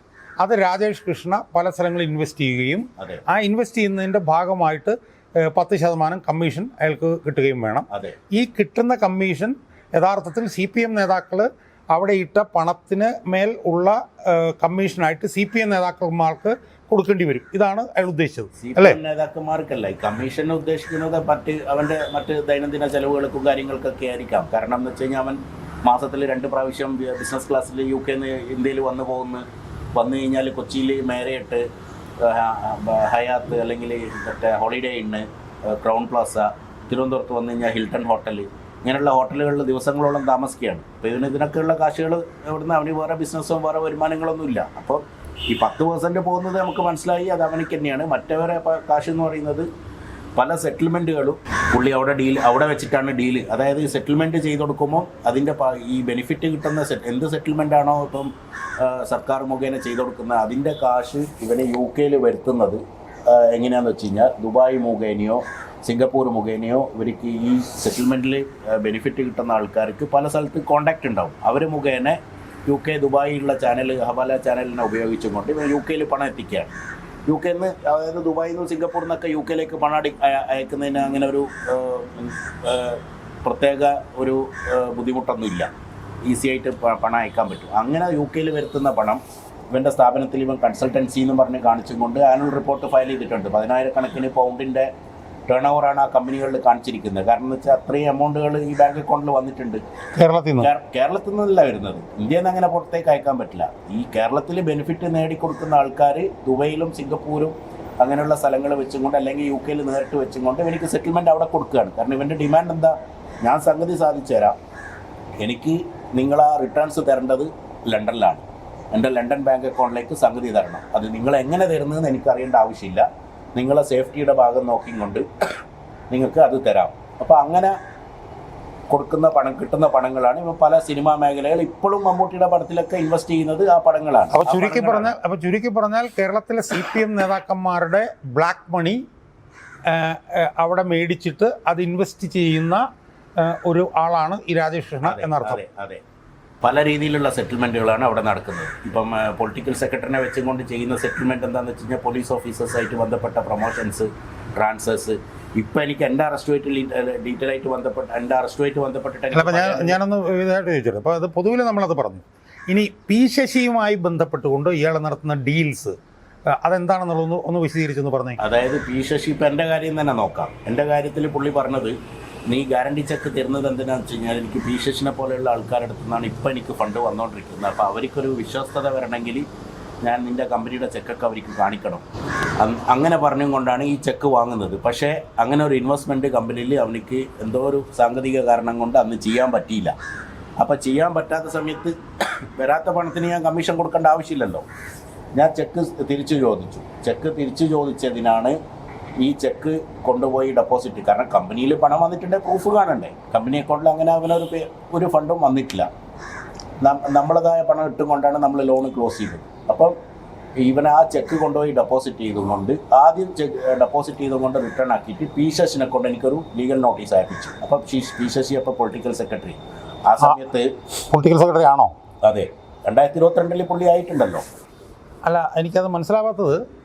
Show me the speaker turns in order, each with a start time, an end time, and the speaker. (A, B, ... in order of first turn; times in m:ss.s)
0:00.4-0:19.0 A
0:03.0-0:03.2 B
0:07.9-0:08.2 B
0:18.6-0:31.6 B
0:32.2-0:49.7 B
0:50.4-1:16.7 B
1:17.3-1:25.7 B
1:26.3-1:34.9 B
1:35.5-1:39.8 B
1:40.2-1:40.7 A
1:40.6-1:54.6 B
1:55.4-2:05.3 B
2:06.1-2:07.8 B
2:08.9-2:15.1 B
2:14.3-2:19.0 A
2:19.9-2:22.8 A
2:23.4-2:25.6 A
2:25.0-2:26.0 B
2:26.6-2:40.0 B
2:39.3-2:46.0 A
2:46.5-2:48.4 A
2:48.4-2:52.0 B
2:52.5-2:59.5 B
3:00.0-3:02.0 B
3:02.6-3:10.0 B
3:10.6-3:14.6 B
3:15.4-3:18.6 B
3:19.2-3:25.9 B
3:26.8-3:30.0 B
3:30.6-3:40.7 B
3:41.1-3:41.9 A
3:42.2-3:44.4 B
3:45.3-3:46.6 A